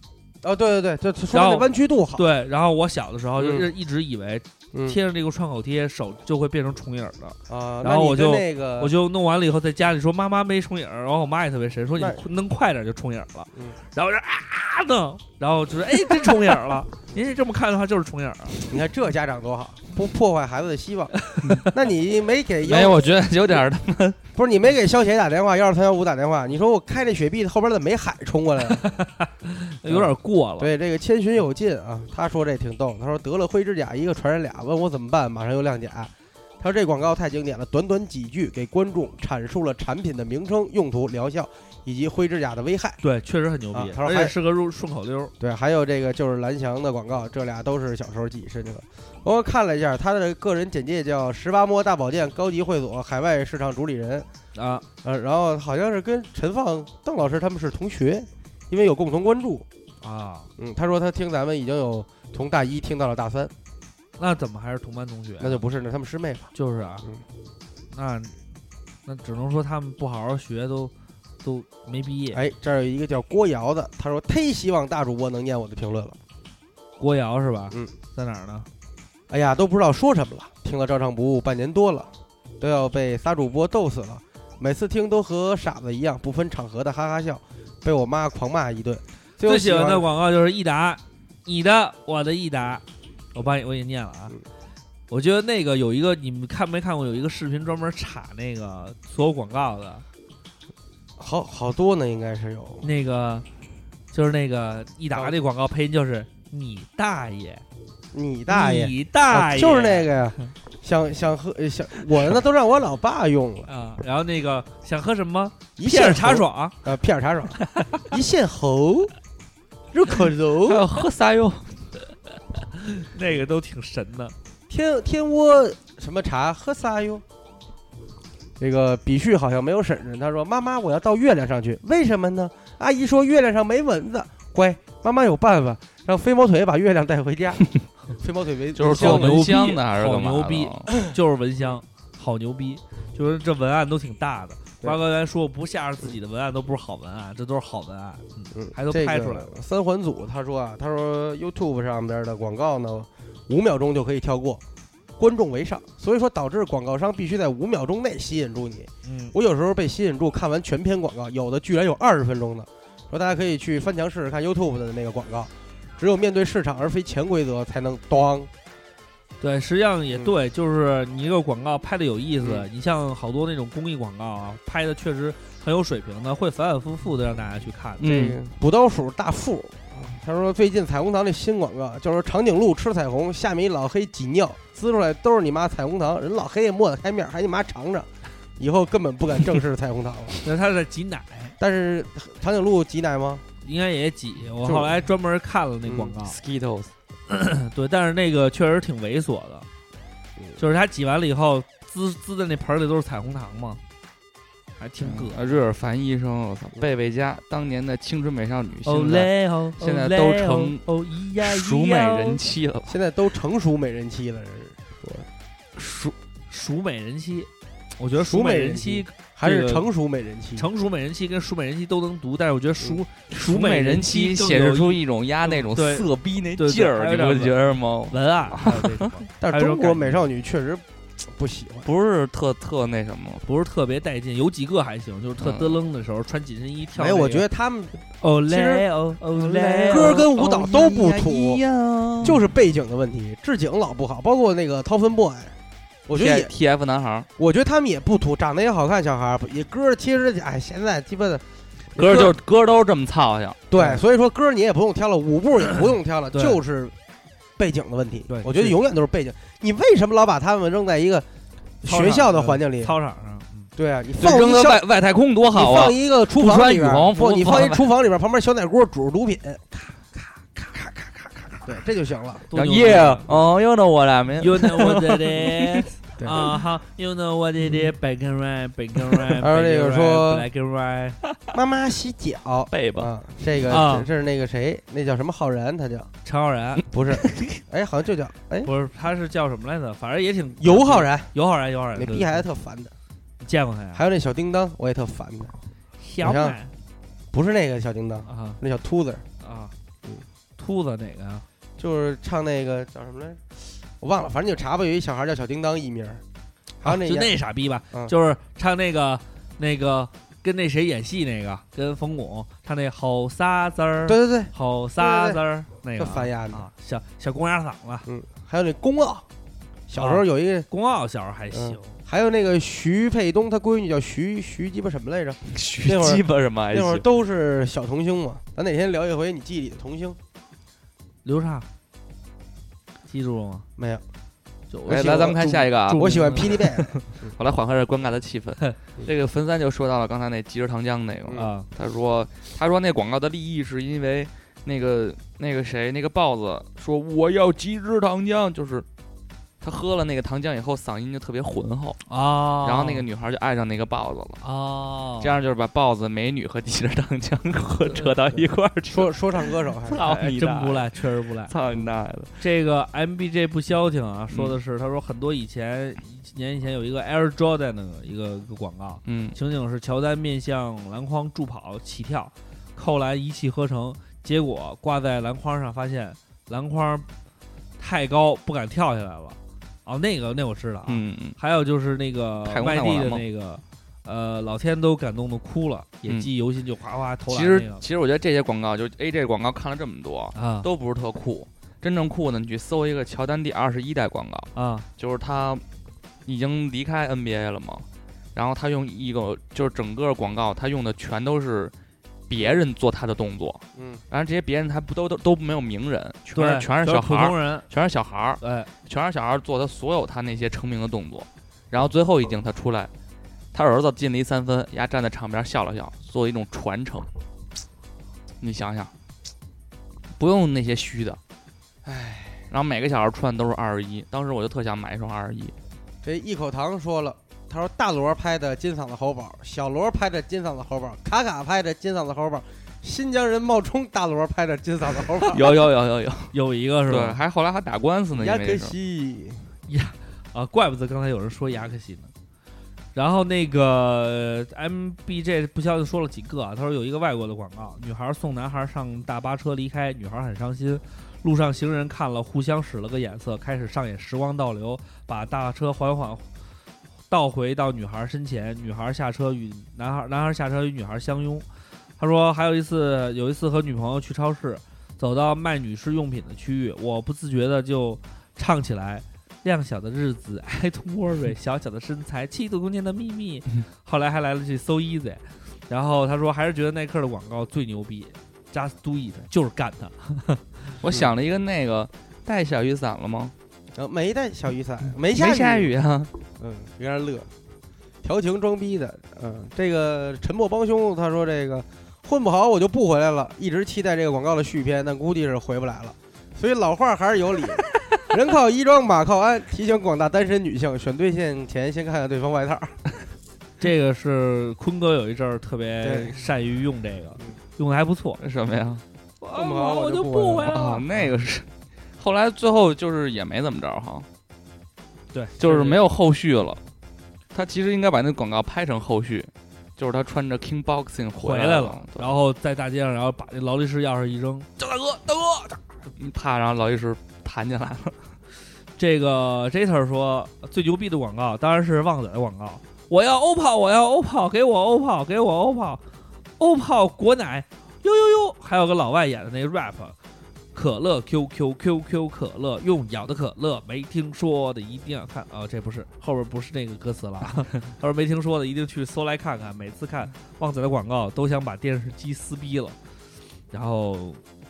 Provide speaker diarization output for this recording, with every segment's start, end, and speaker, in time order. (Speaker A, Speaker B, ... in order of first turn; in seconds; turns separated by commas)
Speaker A: 0.4-2.2, Speaker B: 1.3-18.6, Speaker A: 3.4-3.7, Speaker A: 4.7-5.0, Speaker A: 7.5-8.9, Speaker A: 11.9-12.2, Speaker A: 18.6-21.1, Speaker B: 21.3-21.6, Speaker A: 21.7-23.1, Speaker C: 22.6-24.2, Speaker A: 24.4-28.9, Speaker B: 28.7-30.7, Speaker A: 29.9-43.0, Speaker B: 43.0-45.3, Speaker A: 43.7-44.3, Speaker A: 45.4-54.3, Speaker B: 54.5-54.9, Speaker A: 55.0-59.6, Speaker B: 60.0-60.5, Speaker A: 60.6-63.5, Speaker B: 64.2-65.6, Speaker A: 65.4-66.5, Speaker B: 66.5-67.1, Speaker B: 67.9-68.3, Speaker B: 69.0-70.9, Speaker B: 71.4-72.4, Speaker A: 72.3-76.2, Speaker B: 77.0-78.7, Speaker A: 79.3-90.0, Speaker B: 89.4-94.4, Speaker B: 95.1-100.0, Speaker A: 101.2-102.9, Speaker B: 102.8-103.5, Speaker B: 104.1-107.6, Speaker A: 108.1-113.7, Speaker B: 108.5-110.5, Speaker B: 113.7-116.8, Speaker A: 115.8-119.1, Speaker B: 117.6-118.0, Speaker A: 119.9-120.8, Speaker C: 120.6-121.8, Speaker B: 122.8-124.3, Speaker A: 124.7-127.2, Speaker A: 128.6-137.6, Speaker A: 138.2-139.6, Speaker C: 138.8-140.9, Speaker B: 138.9-149.5, Speaker A: 148.5-154.6, Speaker A: 155.2-168.5, Speaker B: 159.0-159.3, Speaker B: 169.4-178.1, Speaker A: 172.4-172.7, Speaker C: 178.0-178.4, Speaker A: 178.0-190.4, Speaker B: 190.4-191.6, Speaker A: 191.6-193.4, Speaker B: 193.6-196.4, Speaker A: 194.6-194.9, Speaker A: 195.9-196.1, Speaker C: 196.2-196.9, Speaker B: 197.3-199.7, Speaker B: 200.6-203.8, Speaker B: 204.8-205.6, Speaker C: 205.0-210.8, Speaker B: 208.9-212.4, Speaker C: 211.4-213.0, Speaker A: 212.9-215.3, Speaker C: 215.8-216.1, Speaker B: 216.5-219.9, Speaker A: 218.2-220.7, Speaker B: 220.6-230.2, Speaker C: 223.3-229.1, Speaker A: 229.4-231.9, Speaker C: 231.8-233.4, Speaker B: 233.4-237.4, Speaker C: 235.4-235.8, Speaker A: 236.9-238.9, Speaker B: 238.2-240.2, Speaker C: 239.3-242.4, Speaker A: 239.8-241.6, Speaker A: 242.2-245.6, Speaker A: 246.1-246.5, Speaker C: 246.1-247.3, Speaker A: 247.4-251.4, Speaker A: 251.9-252.3, Speaker C: 251.9-253.6, Speaker A: 253.7-256.9, Speaker B: 256.3-256.6, Speaker A: 257.6-261.3, Speaker B: 258.3-258.8, Speaker A: 261.8-262.9, Speaker B: 261.9-263.7, Speaker A: 263.8-264.8, Speaker C: 264.2-267.9, Speaker A: 265.5-269.8, Speaker B: 270.6-271.5, Speaker A: 271.6-272.4, Speaker B: 272.5-273.3, Speaker C: 272.5-275.8, Speaker B: 274.4-281.2, Speaker A: 279.4-280.5, Speaker A: 281.5-286.1, Speaker C: 282.7-283.1, Speaker B: 283.7-284.1, Speaker B: 286.2-286.8, Speaker A: 286.9-288.7, Speaker B: 288.6-292.4, Speaker A: 290.6-291.3, Speaker A: 291.9-292.9, Speaker B: 293.4-294.0, Speaker A: 293.9-295.5, Speaker B: 296.0-296.7, Speaker A: 296.2-296.6, Speaker A: 297.3-299.3, Speaker B: 298.3-298.6, Speaker B: 299.4-299.7, Speaker B: 300.6-301.4, Speaker A: 301.8-306.2, Speaker A: 306.8-307.3, Speaker B: 306.8-318.1, Speaker A: 314.1-315.4, Speaker A: 315.9-316.6, Speaker A: 318.1-319.3, Speaker A: 319.9-320.7, Speaker B: 319.9-322.0, Speaker A: 321.5-330.2, Speaker C: 325.5-327.1, Speaker B: 331.2-331.7, Speaker B: 333.1-333.6, Speaker A: 333.8-334.0, Speaker B: 334.7-336.6, Speaker A: 334.9-337.3, Speaker C: 334.9-348.9, Speaker B: 341.3-341.7, Speaker C: 349.6-352.1, Speaker B: 352.1-353.1, Speaker C: 352.6-354.4, Speaker B: 354.4-355.3, Speaker C: 355.2-362.4, Speaker B: 357.9-358.1, Speaker A: 358.9-360.0, Speaker B: 360.0-361.6, Speaker B: 362.4-377.1, Speaker C: 364.3-364.6, Speaker C: 369.1-369.4, Speaker B: 377.8-387.8, Speaker C: 380.9-381.4, Speaker C: 382.4-383.2, Speaker C: 387.3-395.6, Speaker B: 390.3-390.7, Speaker B: 394.6-394.9, Speaker C: 396.3-401.7, Speaker C: 402.3-412.9, Speaker A: 403.8-404.0, Speaker B: 406.3-407.7, Speaker B: 408.4-408.7, Speaker C: 413.5-417.1, Speaker C: 418.4-418.9, Speaker C: 420.2-421.2, Speaker A: 421.8-422.5, Speaker C: 422.5-425.5, Speaker A: 426.0-435.4, Speaker C: 435.3-436.3, Speaker B: 436.3-437.2, Speaker C: 436.9-438.7, Speaker A: 438.1-439.5, Speaker B: 439.7-442.1, Speaker B: 442.9-456.3, Speaker B: 457.1-461.4, Speaker B: 462.0-480.5, Speaker C: 480.8-483.3, Speaker A: 483.8-485.7, Speaker C: 485.1-486.1, Speaker A: 486.4-487.3, Speaker A: 488.0-502.8, Speaker B: 503.6-508.2, Speaker A: 505.8-506.2, Speaker C: 508.2-508.8, Speaker B: 509.2-510.9, Speaker A: 509.3-510.6, Speaker C: 510.5-511.5, Speaker C: 512.0-514.1, Speaker B: 515.1-515.8, Speaker C: 515.4-516.6, Speaker C: 517.3-522.1, Speaker B: 521.2-525.6, Speaker C: 526.0-528.0, Speaker B: 528.8-535.8, Speaker B: 536.4-540.0, Speaker B: 540.5-552.8, Speaker B: 553.5-554.2